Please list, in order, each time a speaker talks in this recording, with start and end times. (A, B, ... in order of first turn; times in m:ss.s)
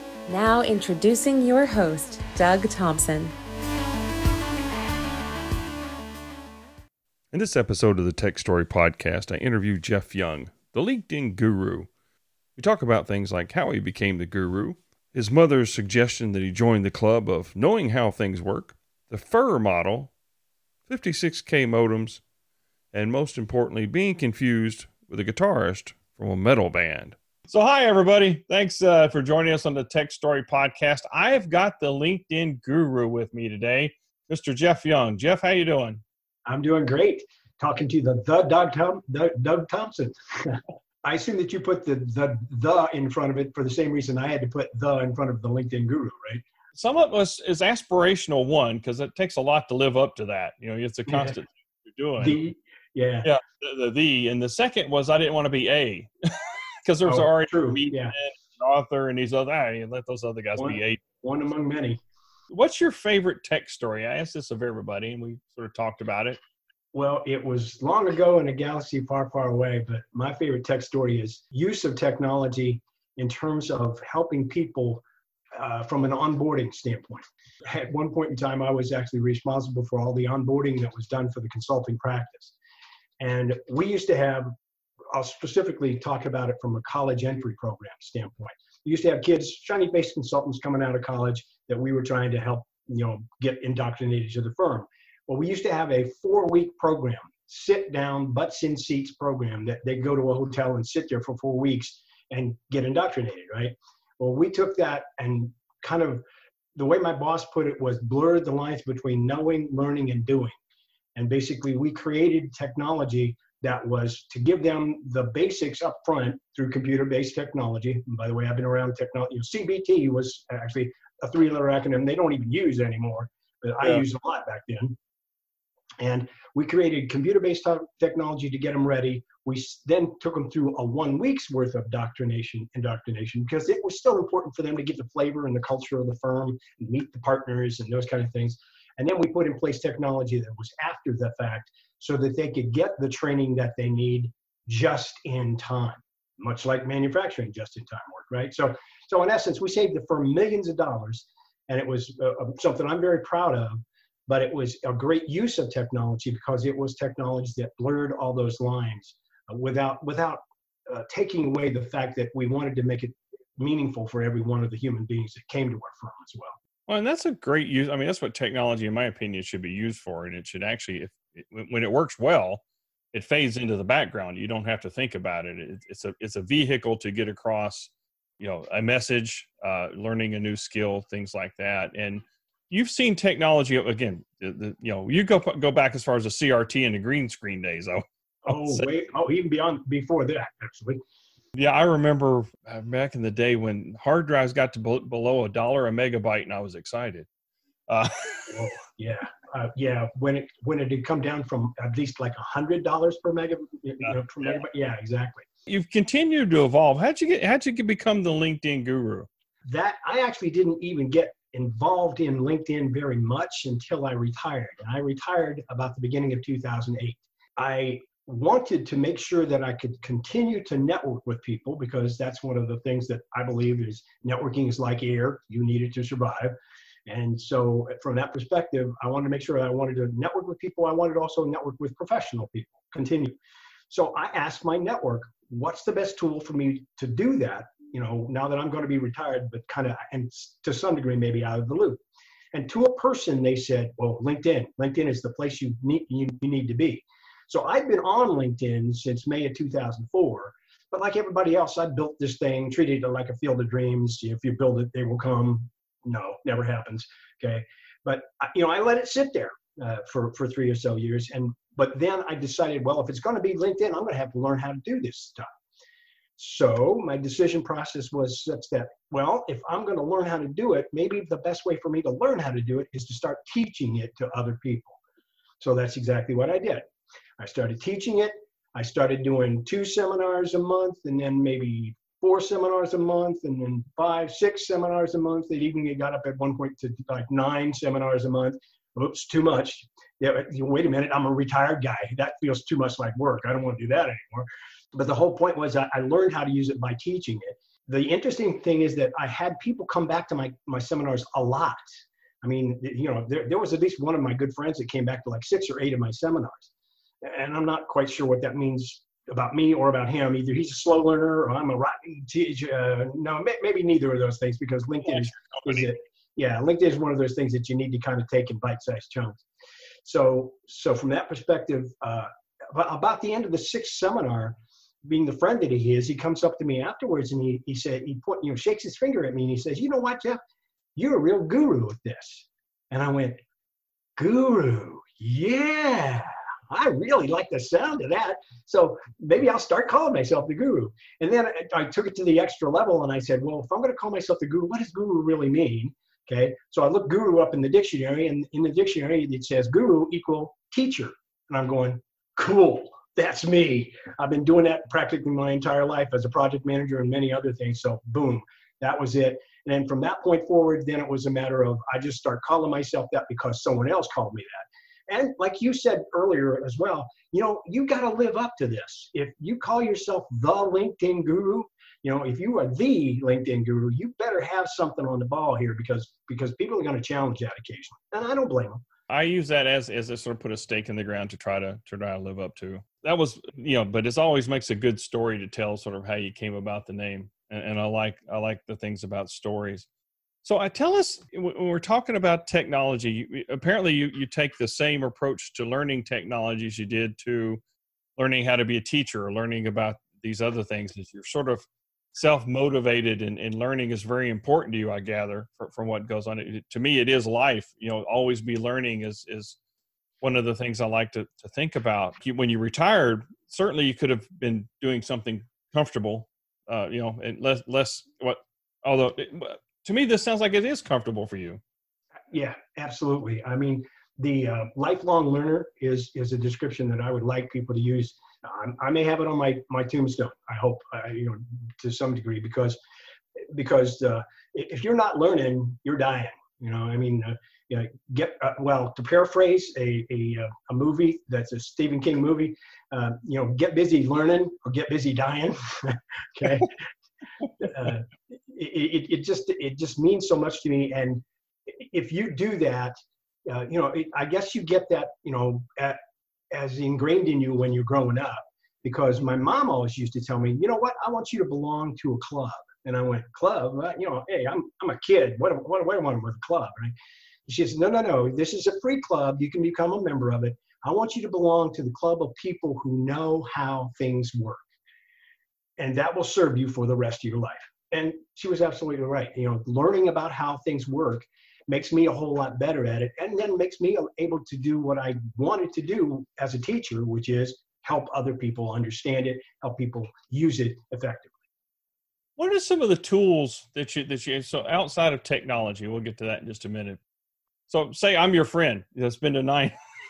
0:00.3-0:03.3 A
0:07.3-0:11.9 B
0:12.6-0:20.1 B
0:20.9-0:22.2 B
0:22.9-0:36.0 B
0:36.5-0:46.4 C
0:46.7-0:52.4 B
0:51.1-0:51.4 C
0:52.2-0:53.3 C
0:53.2-1:01.0 B
0:57.0-0:58.2 C
1:00.6-1:02.0 C
1:02.5-1:06.4 B
1:06.9-1:15.0 C
1:15.5-1:22.5 C
1:23.2-1:24.5 C
1:25.1-1:46.2 C
1:46.8-1:50.5 C
1:51.2-2:05.0 C
2:06.0-2:46.6 C
2:46.9-2:52.6 B
2:53.1-3:08.8 B
3:08.4-3:11.0 C
3:11.5-3:17.3 B
3:17.9-3:18.6 B
3:18.5-3:25.5 C
3:24.1-3:24.5 B
3:25.7-3:29.3 B
3:29.6-3:46.5 C
3:47.1-3:53.3 C
3:53.9-4:02.0 C
4:02.5-4:25.5 C
4:26.4-4:35.0 C
4:35.6-4:36.8 C
4:37.4-5:01.8 C
5:02.4-5:06.7 C
5:07.2-5:19.4 C
5:15.0-5:15.9 B
5:20.0-5:30.4 C
5:31.0-5:33.4 C
5:34.2-6:18.8 C
6:19.1-6:29.9 B
6:30.4-6:37.6 B
6:38.2-6:49.6 B
6:50.2-7:01.6 B
7:02.3-7:12.8 C
7:13.4-7:26.8 C
7:27.6-7:32.9 C
7:33.4-7:36.0 C
7:36.5-7:46.9 C
7:47.5-7:54.6 C
7:55.8-8:11.3 C
8:12.4-8:17.0 B
8:17.7-8:19.8 B